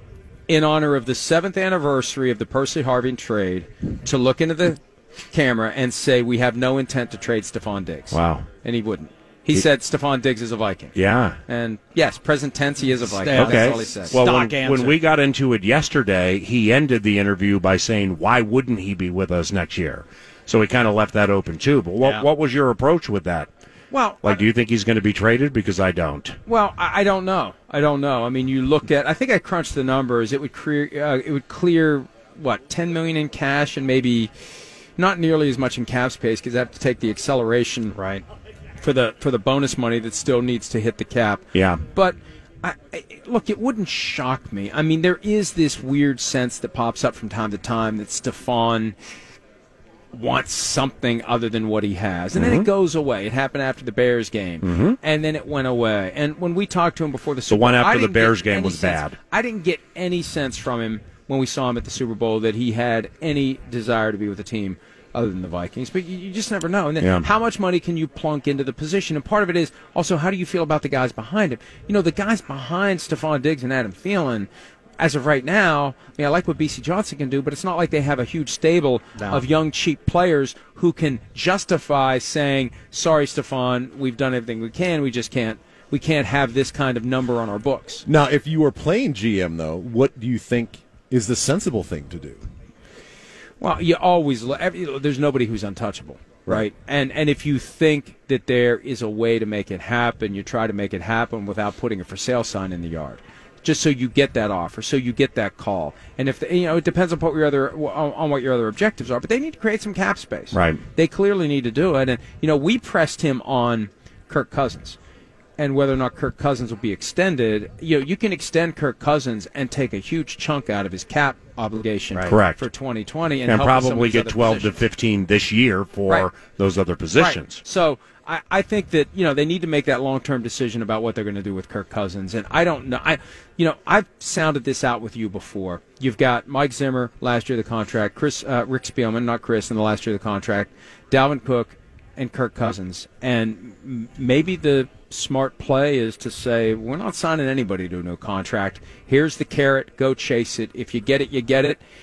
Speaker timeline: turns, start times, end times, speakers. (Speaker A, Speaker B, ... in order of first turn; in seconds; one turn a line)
Speaker A: 0.5-10.9
Speaker B: 8.1-8.4
Speaker B: 10.9-11.4
Speaker A: 11.4-14.2
Speaker C: 13.0-15.0
Speaker B: 13.3-23.5
Speaker A: 23.9-24.4
Speaker B: 24.2-26.4
Speaker A: 26.4-34.3
Speaker A: 35.0-37.9
Speaker C: 37.9-38.2
Speaker A: 38.8-48.9
Speaker B: 41.5-41.8
Speaker A: 50.1-88.0
Speaker B: 52.3-52.6
Speaker B: 54.6-55.0
Speaker B: 57.5-59.1
Speaker B: 67.0-67.2
Speaker C: 79.2-79.4
Speaker D: 88.0-92.4
Speaker A: 93.6-115.0
Speaker B: 110.5-110.8
Speaker A: 115.6-124.7
Speaker B: 122.3-122.6
Speaker B: 123.5-127.6
Speaker A: 127.1-151.8